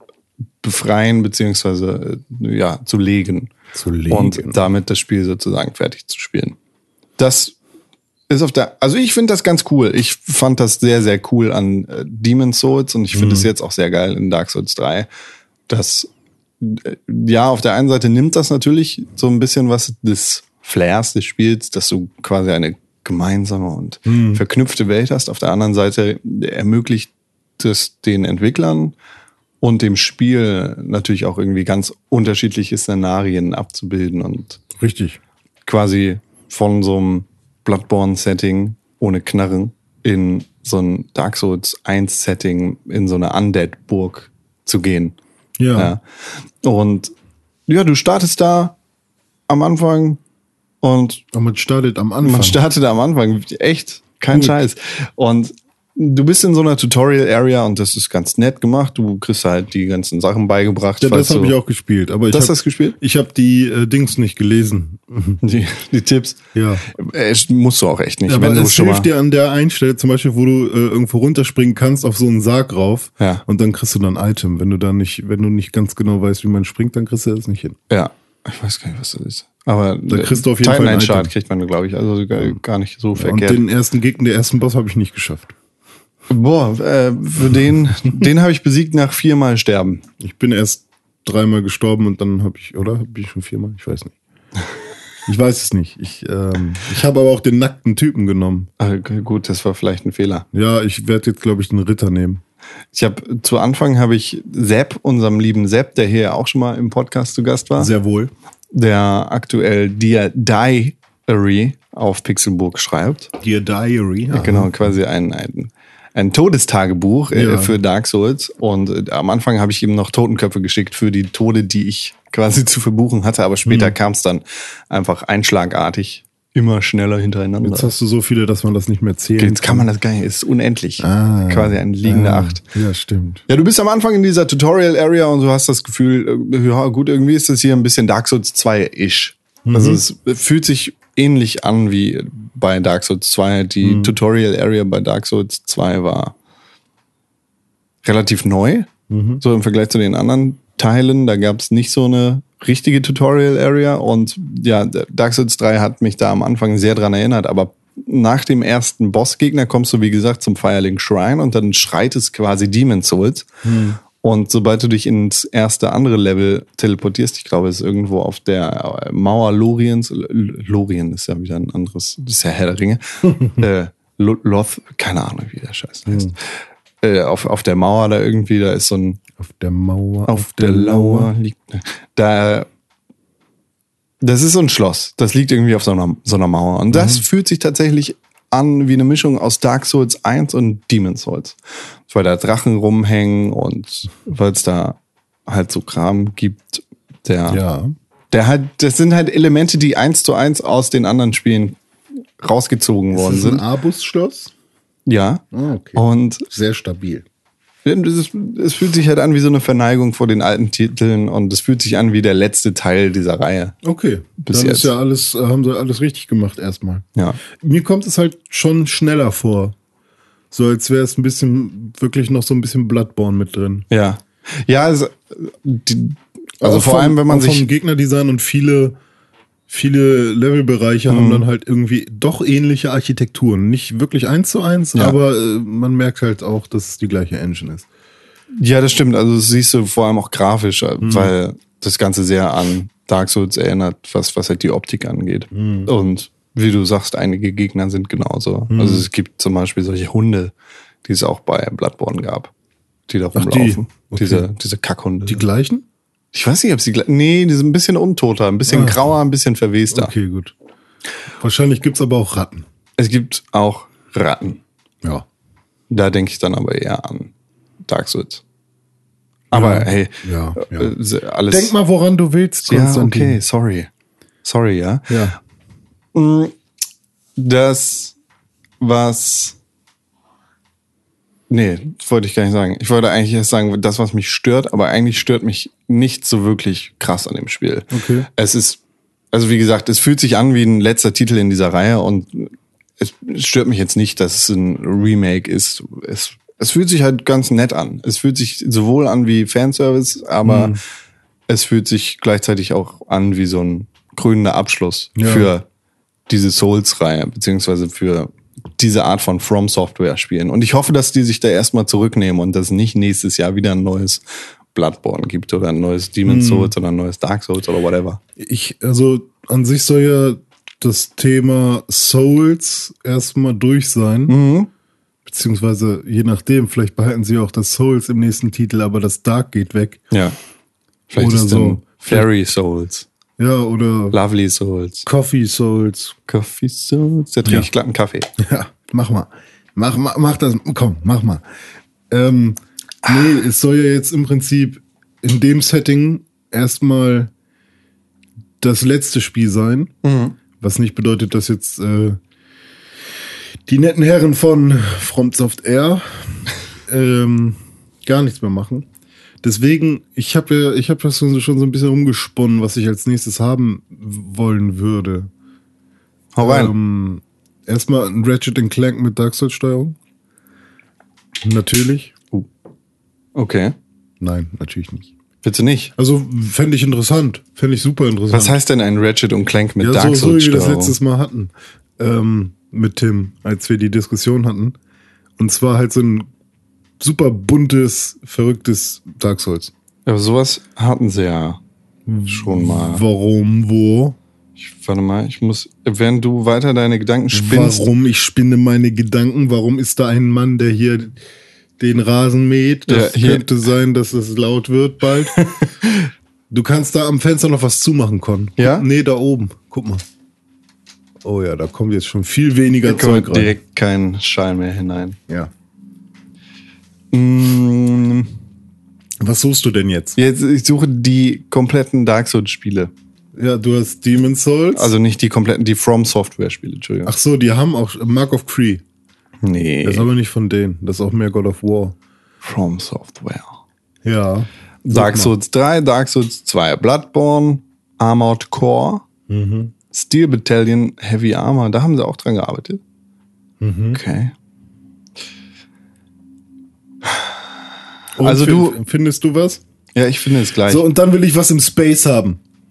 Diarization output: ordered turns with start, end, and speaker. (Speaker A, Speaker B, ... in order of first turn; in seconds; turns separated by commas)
Speaker A: 0.6-3.5, Speaker B: 3.7-4.6, Speaker A: 4.1-6.5, Speaker A: 7.2-7.6, Speaker A: 8.3-15.1, Speaker B: 13.1-13.5, Speaker A: 15.7-16.1, Speaker A: 16.6-28.9, Speaker B: 24.1-24.4, Speaker A: 29.6-34.6, Speaker B: 34.8-35.2, Speaker A: 35.6-45.2, Speaker B: 45.6-45.9, Speaker A: 45.7-46.0, Speaker A: 46.6-47.1, Speaker A: 47.7-48.8, Speaker A: 49.5-50.2, Speaker A: 50.8-51.2, Speaker B: 51.3-52.6, Speaker A: 52.2-61.5, Speaker B: 54.3-54.6, Speaker B: 61.0-65.4, Speaker A: 62.3-63.0, Speaker A: 65.4-69.1, Speaker B: 66.5-66.8, Speaker B: 68.3-77.8, Speaker A: 77.9-83.6, Speaker B: 80.1-81.3, Speaker B: 83.1-85.5, Speaker A: 86.3-90.0, Speaker B: 90.2-94.2, Speaker B: 95.2-98.7, Speaker A: 98.8-100.4, Speaker B: 100.5-102.4, Speaker A: 102.9-107.9, Speaker B: 107.8-108.3, Speaker A: 108.7-113.3, Speaker B: 113.4-114.9, Speaker A: 114.3-127.9, Speaker B: 117.3-117.8, Speaker B: 123.7-124.0, Speaker B: 127.6-129.9, Speaker A: 129.4-132.6, Speaker B: 131.0-133.4, Speaker A: 133.5-146.3, Speaker B: 139.7-140.0, Speaker B: 143.8-144.1, Speaker A: 148.0-163.5, Speaker B: 149.1-149.4, Speaker B: 163.6-164.0, Speaker A: 164.2-176.5, Speaker B: 176.1-176.3, Speaker A: 177.0-179.2, Speaker B: 179.4-181.3, Speaker A: 180.3-182.7, Speaker A: 184.2-191.6, Speaker B: 186.9-187.2, Speaker A: 192.1-197.6, Speaker B: 197.5-197.9, Speaker A: 198.3-201.8, Speaker A: 202.4-203.6, Speaker B: 203.1-204.5, Speaker A: 205.1-205.4, Speaker B: 205.5-207.2, Speaker A: 205.9-206.5, Speaker A: 207.8-213.8, Speaker B: 213.8-219.8, Speaker A: 214.4-214.9, Speaker A: 217.2-217.4, Speaker B: 220.5-223.9, Speaker A: 223.9-227.7, Speaker B: 226.6-229.0, Speaker B: 229.7-237.9, Speaker A: 231.1-231.4, Speaker A: 238.6-250.5, Speaker B: 241.0-241.3, Speaker B: 245.5-245.9, Speaker B: 248.7-249.1, Speaker A: 251.0-252.5, Speaker A: 253.1-255.4, Speaker B: 253.3-254.5, Speaker B: 255.2-255.8, Speaker A: 256.3-260.1, Speaker B: 258.7-259.1, Speaker B: 259.9-260.5, Speaker B: 261.4-262.6, Speaker A: 263.0-264.6, Speaker A: 265.9-267.3, Speaker A: 267.9-268.4, Speaker A: 269.5-271.7, Speaker B: 269.5-270.9, Speaker B: 271.5-273.4, Speaker A: 272.7-273.9, Speaker A: 274.4-275.3, Speaker B: 275.1-275.4, Speaker A: 276.1-276.5, Speaker A: 277.4-278.1, Speaker A: 278.8-279.6, Speaker A: 281.5-288.8, Speaker B: 287.9-288.3, Speaker A: 289.3-300.8, Speaker B: 300.4-300.8, Speaker A: 301.5-305.6, Speaker B: 305.1-305.5, Speaker A: 306.3-314.2, Speaker A: 314.7-318.2, Speaker B: 316.2-316.7, Speaker B: 318.4-324.3, Speaker A: 324.3-324.7, Speaker B: 325.2-330.0, Speaker A: 330.1-330.4, Speaker A: 331.1-333.1, Speaker B: 331.2-332.3, Speaker B: 333.4-334.2, Speaker A: 334.1-335.1, Speaker B: 335.1-336.1, Speaker A: 336.3-338.3, Speaker B: 338.4-341.4, Speaker B: 342.1-347.3, Speaker B: 348.6-349.9, Speaker A: 350.0-350.4, Speaker B: 350.6-352.2, Speaker B: 353.6-358.9, Speaker B: 359.4-365.3, Speaker A: 366.3-366.7, Speaker B: 366.4-370.0, Speaker B: 371.4-372.1, Speaker A: 373.3-373.7, Speaker B: 374.2-375.1, Speaker A: 375.4-375.9, Speaker B: 375.9-378.6, Speaker A: 378.3-380.9, Speaker B: 379.8-384.8, Speaker B: 385.4-386.3, Speaker B: 387.0-389.7, Speaker A: 390.1-391.6, Speaker B: 392.1-394.2, Speaker A: 392.3-393.0, Speaker A: 394.6-397.9, Speaker B: 397.3-401.2, Speaker B: 401.8-405.5, Speaker A: 402.9-403.5, Speaker A: 405.4-406.1, Speaker B: 406.5-410.0, Speaker A: 408.6-408.9, Speaker B: 411.2-413.5, Speaker A: 412.8-415.2, Speaker A: 417.1-418.3, Speaker B: 419.2-420.2, Speaker A: 420.1-422.9, Speaker B: 423.3-424.9, Speaker A: 424.7-427.1, Speaker B: 427.1-428.8, Speaker A: 429.4-430.1, Speaker B: 429.8-431.9, Speaker A: 432.4-433.6, Speaker B: 434.0-435.3, Speaker A: 434.8-439.0, Speaker B: 439.3-439.7, Speaker A: 439.9-442.8, Speaker B: 443.6-444.0, Speaker A: 443.9-444.3, Speaker B: 448.1-449.6, Speaker A: 448.2-448.8, Speaker A: 449.9-450.8, Speaker B: 450.7-452.4